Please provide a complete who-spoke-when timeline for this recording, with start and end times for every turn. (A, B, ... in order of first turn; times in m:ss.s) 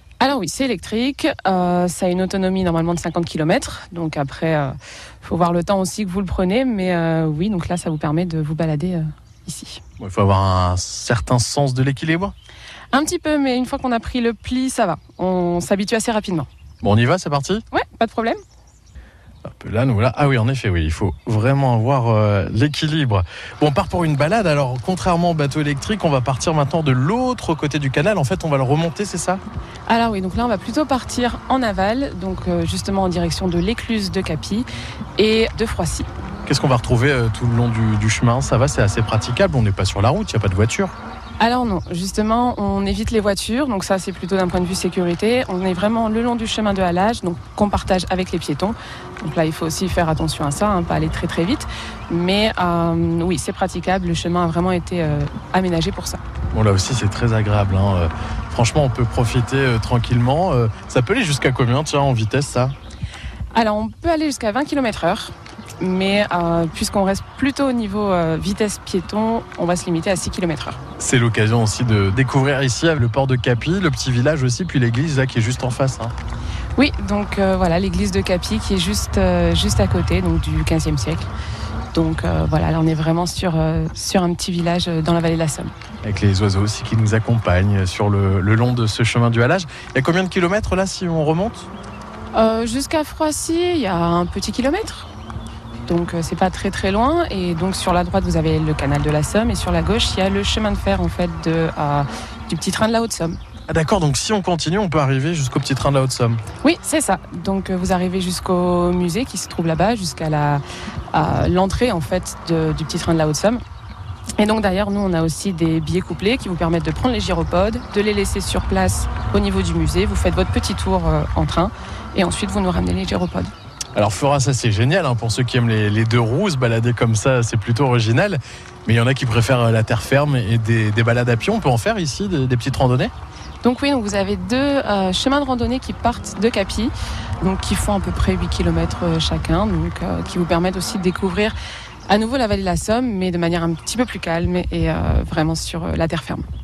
0:00.2-0:09.8 A
0:10.0-0:12.3 B
0:12.9-0:16.5 A
0:16.8-0:17.6 B
0:17.7-0:18.4 A
0:19.4-0:29.4 B
0:29.9-0:36.1 A
0:36.4-0:40.9 B
0:41.4-0:56.2 A
0:56.5-1:02.7 B
1:03.5-1:10.8 A
1:11.0-1:16.1 B
1:16.8-1:21.3 A
1:21.9-1:25.7 A
1:26.0-1:31.7 B
1:32.3-1:35.1 A
1:35.9-1:43.4 A
1:43.7-1:46.4 B
1:46.6-1:53.6 A
1:54.4-2:03.5 A
2:03.9-2:13.1 B
2:13.6-2:21.5 A
2:22.1-2:26.4 A